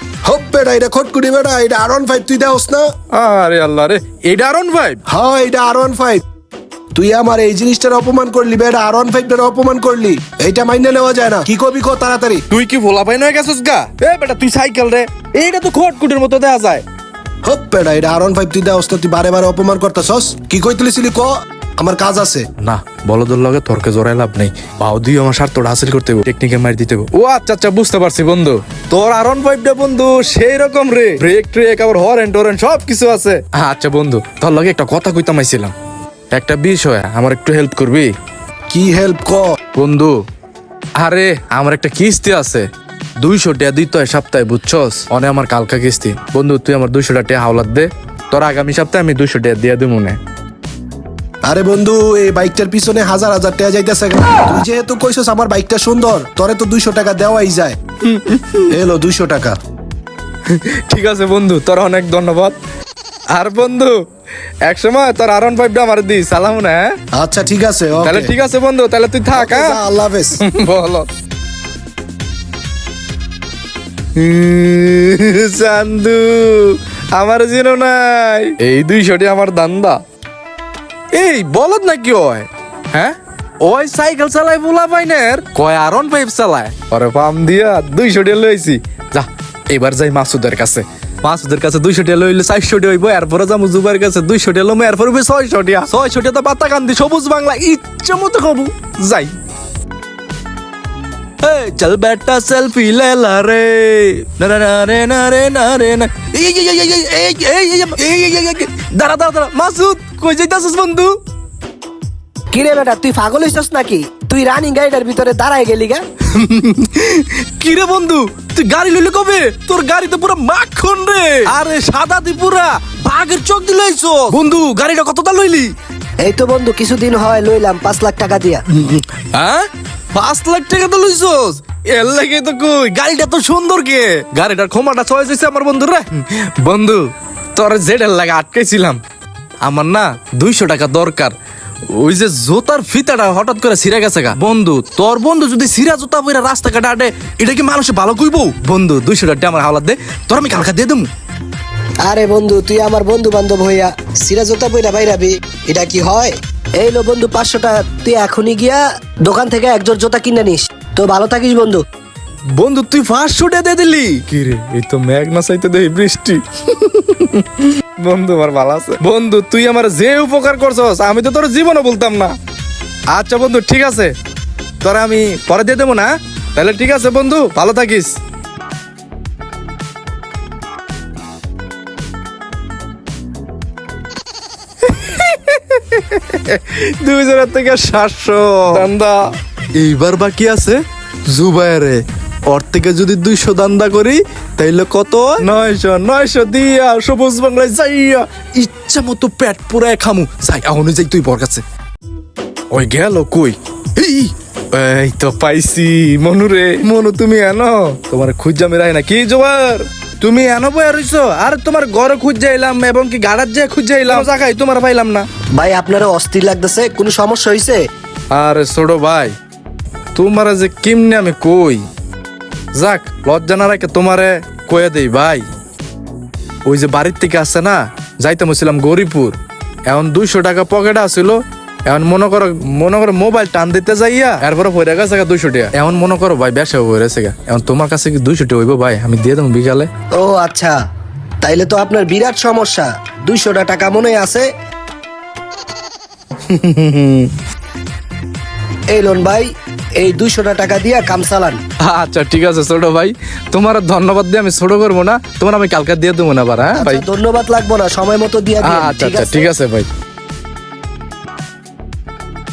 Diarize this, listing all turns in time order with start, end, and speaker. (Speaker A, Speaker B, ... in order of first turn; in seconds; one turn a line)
Speaker A: 0.2-2.9
Speaker B: 3.1-5.0
Speaker A: 5.1-6.2
Speaker A: 6.9-12.4
Speaker B: 12.5-16.8
Speaker A: 17.4-22.5
Speaker B: 22.6-35.7
Speaker B: 36.3-38.1
Speaker A: 38.7-39.6
Speaker B: 39.8-40.2
Speaker B: 41.0-50.2
Speaker A: 51.5-57.8
Speaker B: 58.0-58.7
Speaker A: 58.7-59.6
Speaker B: 60.5-62.6
Speaker B: 63.3-64.0
Speaker B: 64.7-67.0
Speaker A: 67.1-68.3
Speaker B: 68.0-69.8
Speaker A: 69.3-70.4
Speaker B: 70.4-71.1
Speaker B: 74.2-80.0
Speaker B: 81.1-99.3
Speaker B: 101.4-111.2
Speaker C: 112.5-116.0
Speaker B: 116.3-125.8
Speaker C: 126.2-128.6
Speaker B: 128.7-139.0
Speaker B: 139.6-141.3
Speaker B: 141.9-151.1
Speaker C: 152.1-155.3
Speaker A: 155.7-156.3
Speaker C: 155.9-156.3
Speaker C: 156.8-161.8
Speaker B: 162.5-172.3
Speaker B: 173.1-174.1
Speaker B: 174.8-178.2
Speaker B: 184.8-201.6
Speaker B: 202.7-215.3
Speaker C: 215.6-217.8
Speaker B: 218.3-219.3
Speaker B: 220.2-221.8
Speaker B: 222.8-225.4
Speaker B: 226.7-239.9
Speaker C: 240.2-240.8
Speaker C: 241.4-244.5
Speaker A: 241.9-244.3
Speaker B: 246.5-247.3
Speaker C: 248.9-249.5
Speaker C: 250.0-251.6
Speaker A: 250.1-250.7
Speaker B: 251.8-257.0
Speaker C: 256.8-259.5
Speaker A: 257.8-259.3
Speaker B: 258.6-259.9